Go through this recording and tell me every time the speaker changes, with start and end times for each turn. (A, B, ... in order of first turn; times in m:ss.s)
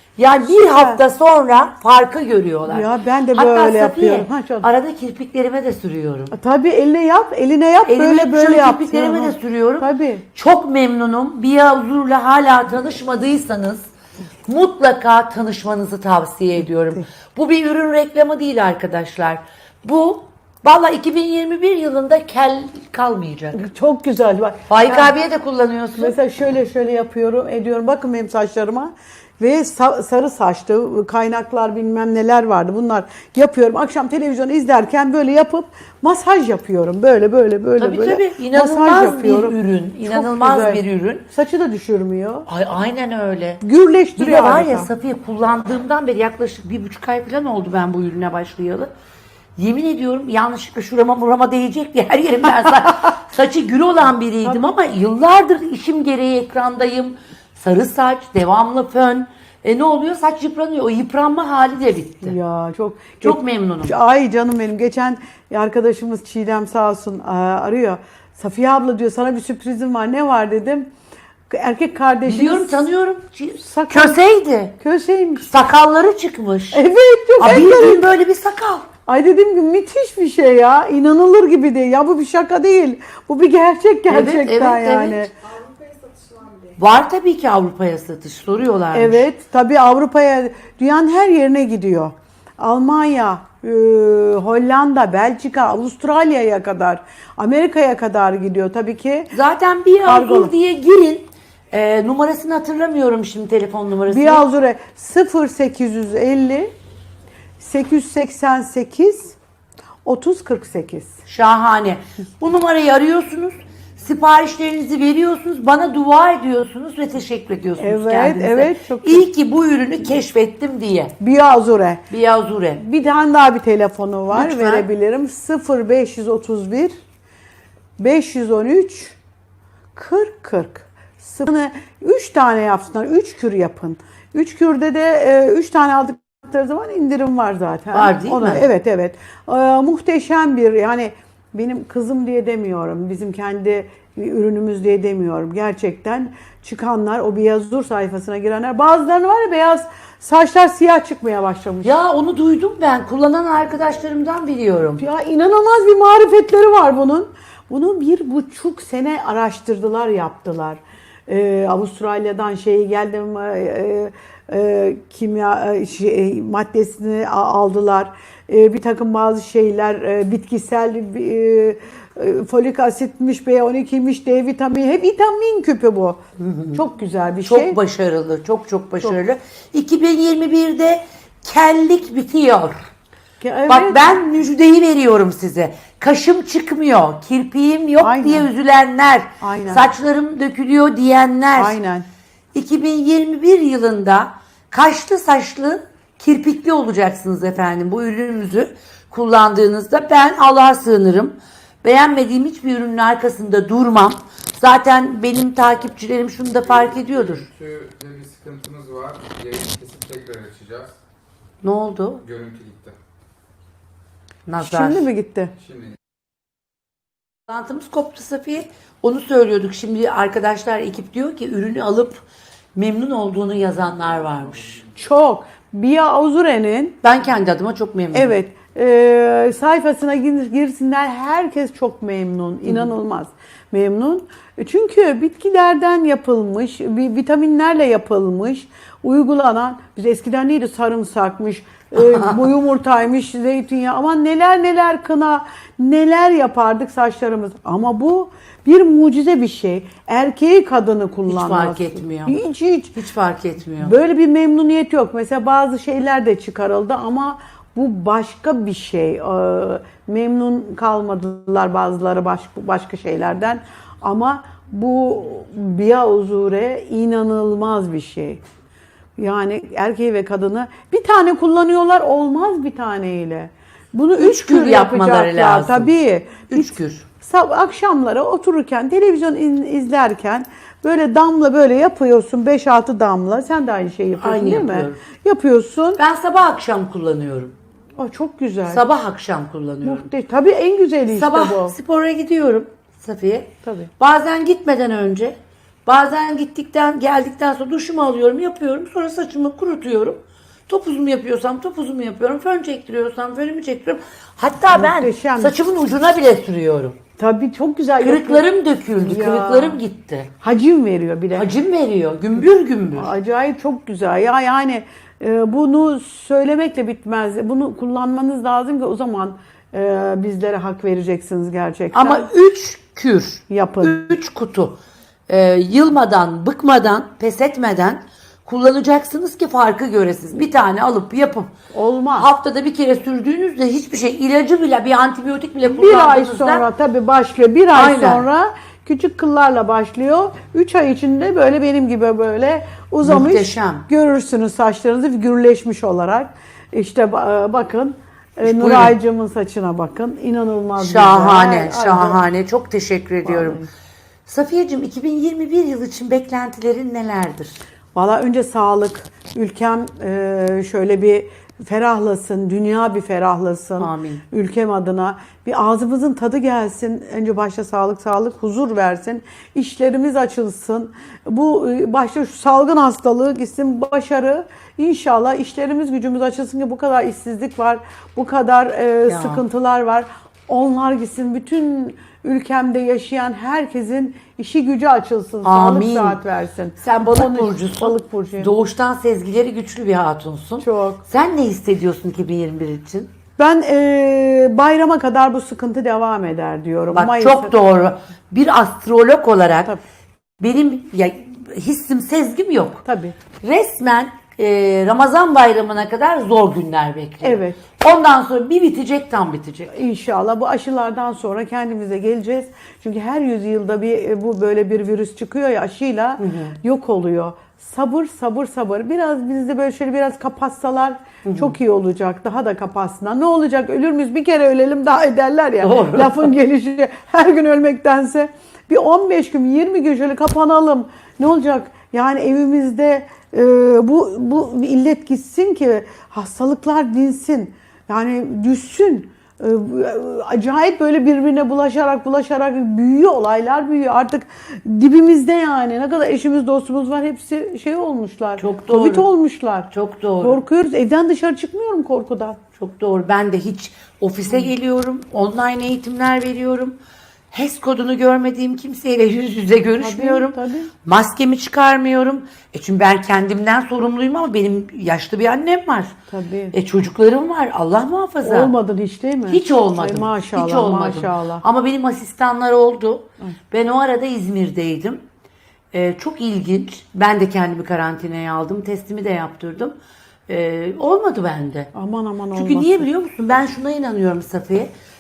0:00.2-0:06.3 A
0:00.4-0:01.0 B
0:02.7-0:04.7 B
0:06.3-0:10.2 B
0:07.8-0:13.9 A
0:14.5-0:23.6 A
0:23.6-0:25.2 B
0:24.7-0:26.2 A
0:26.0-0:42.5 B
0:37.8-0:41.3 A
0:42.5-0:43.6 A
0:43.6-0:44.9 B
0:44.2-0:48.9 A
0:49.6-1:02.4 A
1:02.2-1:10.9 B
1:03.2-1:03.9 A
1:11.5-1:12.9 B
1:12.3-1:14.8 A
1:13.6-1:14.2 B
1:14.8-1:15.5 B
1:15.4-1:16.8 A
1:16.7-1:18.1 B
1:17.4-1:18.9 A
1:19.1-1:25.3 B
1:24.1-1:25.2 A
1:26.8-1:29.2 A
1:28.9-1:39.3 B
1:39.3-1:44.4 A
1:40.0-1:40.5 B
1:44.1-1:46.7 B
1:47.6-1:49.4 B
1:50.0-1:51.2 B
1:51.3-2:01.2 A
1:57.8-1:59.3 B
2:01.2-2:02.0 B
2:02.1-2:02.8 A
2:02.8-2:07.0 B
2:04.3-2:04.9 A
2:08.0-2:09.2 B
2:09.9-2:31.9 B
2:17.9-2:18.7 A
2:31.8-2:35.0 A
2:35.0-2:56.2 B
2:56.4-2:56.8 A
2:56.7-2:57.8 B
2:57.4-3:02.9 A
3:03.4-3:04.0 B
3:03.7-3:11.8 A
3:08.0-3:08.5 B
3:09.4-3:09.9 B
3:11.6-3:12.1 B
3:12.5-3:27.5 A
3:27.1-3:31.0 C
3:31.6-3:32.2 A
3:32.2-3:33.0 C
3:34.5-3:35.1 A
3:34.6-3:35.5 B
3:35.6-3:35.9 C
3:37.5-3:42.2 A
3:42.8-3:44.8 A
3:45.0-3:47.0 B
3:47.0-3:48.3 A
3:48.1-4:13.0 B
4:02.0-4:02.4 A
4:11.3-4:12.4 A
4:13.0-4:14.0 A
4:13.8-4:28.4 B
4:29.2-4:46.0 B
4:34.2-4:35.9 A
4:36.5-4:37.1 A
4:44.2-4:45.0 A
4:46.0-4:47.6 A
4:48.0-4:48.8 B
4:48.7-4:50.1 A
4:49.8-4:51.8 B
4:51.1-5:07.0 A
4:53.6-4:53.9 B
5:04.7-5:05.6 B
5:07.2-5:08.4 B
5:08.0-5:10.3 A
5:09.0-5:09.8 B
5:10.4-5:11.5 B
5:11.3-5:13.1 A
5:12.9-5:22.3 B
5:21.9-5:24.8 A
5:23.5-5:24.2 B
5:25.3-5:31.5 A
5:31.7-5:32.3 B
5:32.2-5:36.7 A
5:35.7-5:52.2 B
5:37.7-5:38.2 A
5:43.0-5:43.9 A
5:48.4-5:49.0 A
5:50.8-5:53.6 A
5:53.2-5:53.7 B
5:54.3-5:57.6 A
5:57.9-6:28.5 B
6:03.8-6:04.2 A
6:19.1-6:19.4 A
6:25.4-6:26.2 A
6:26.8-6:33.1 A
6:30.6-6:31.0 B
6:33.4-6:37.5 B
6:36.9-6:39.7 A
6:40.4-6:42.8 A
6:42.8-6:43.2 B
6:43.4-6:49.8 A
6:47.2-6:47.6 B
6:49.7-7:29.7 B
6:56.2-6:56.6 A
7:01.2-7:01.5 A
7:05.6-7:06.3 A
7:28.4-7:29.1 A
7:29.7-7:30.4 A
7:30.2-7:32.4 B
7:32.6-7:36.8 A
7:37.3-7:46.0 A
7:39.8-7:40.7 B
7:46.1-7:46.5 B
7:46.5-7:48.5 A
7:48.2-7:51.4 B
7:49.3-7:55.0 A
7:55.7-7:59.7 A
8:00.3-8:01.7 A
8:01.7-8:02.9 B
8:02.3-8:04.7 A